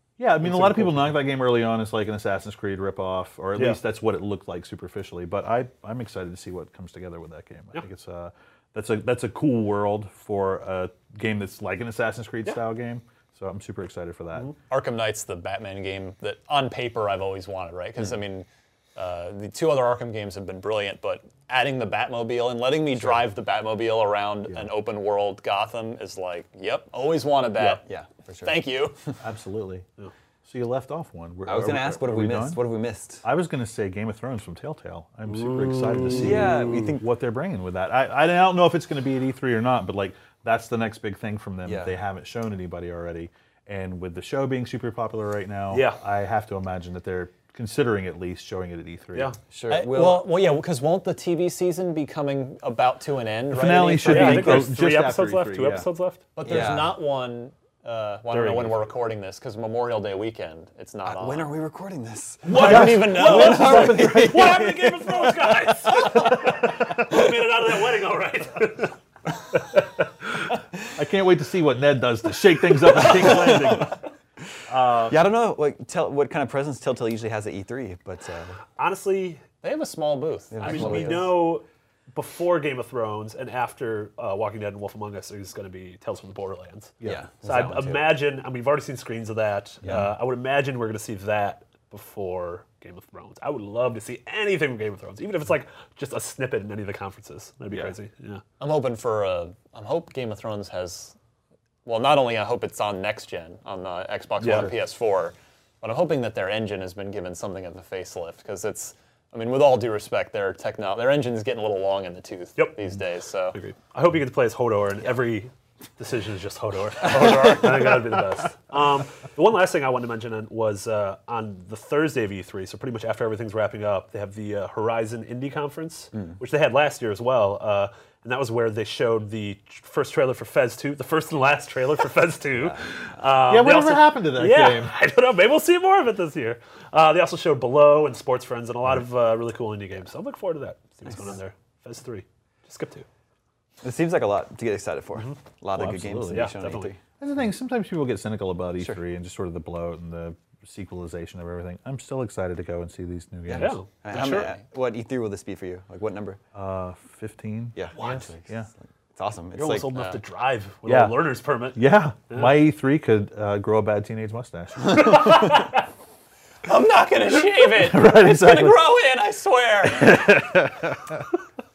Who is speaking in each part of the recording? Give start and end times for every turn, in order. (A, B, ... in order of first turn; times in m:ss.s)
0:00.2-0:14.5 A
0:00.4-0:01.2 B
0:03.5-0:03.8 B
0:14.7-0:27.8 C
0:27.8-0:28.6 D
0:28.4-0:29.0 C
0:29.2-0:29.9 A
0:30.4-0:32.6 A
0:31.5-0:33.2 D
0:33.2-0:49.3 A
0:35.3-0:36.9 B
0:36.1-0:37.0 D
0:41.6-0:42.0 D
0:45.7-0:46.0 B
0:49.5-0:50.3 D
0:49.7-0:54.7 C
0:53.5-0:55.9 A
0:54.0-0:56.2 B
0:56.4-1:01.5 C
0:56.4-0:57.0 D
0:58.3-0:59.0 B
1:01.1-1:06.0 D
1:02.4-1:09.0 B
1:02.5-1:04.8 A
1:02.5-1:03.9 C
1:09.7-1:10.0 B
1:11.0-1:14.0 A
1:12.9-1:13.9 D
1:14.7-1:15.2 A
1:15.1-1:18.6 D
1:18.8-1:19.4 B
1:19.6-1:21.2 C
1:20.5-1:21.4 D
1:20.6-1:38.4 B
1:27.0-1:28.2 D
1:38.6-1:41.2 C
1:41.8-1:53.6 C
1:44.4-1:44.7 B
1:52.6-1:52.8 B
1:53.5-2:23.1 B
2:13.5-2:15.0 A
2:23.8-2:27.0 D
2:25.2-2:25.5 B
2:25.7-2:26.6 A
2:26.3-2:26.9 B
2:27.2-2:33.8 A
2:33.5-2:36.4 D
2:33.5-2:34.5 B
2:34.1-2:34.6 C
2:36.5-2:38.7 A
2:37.8-2:40.2 D
2:38.0-2:38.3 B
2:39.5-2:42.5 B
2:40.8-2:45.7 A
2:45.2-2:45.7 B
2:46.7-2:50.3 C
2:47.6-2:48.9 A
2:49.9-2:51.2 A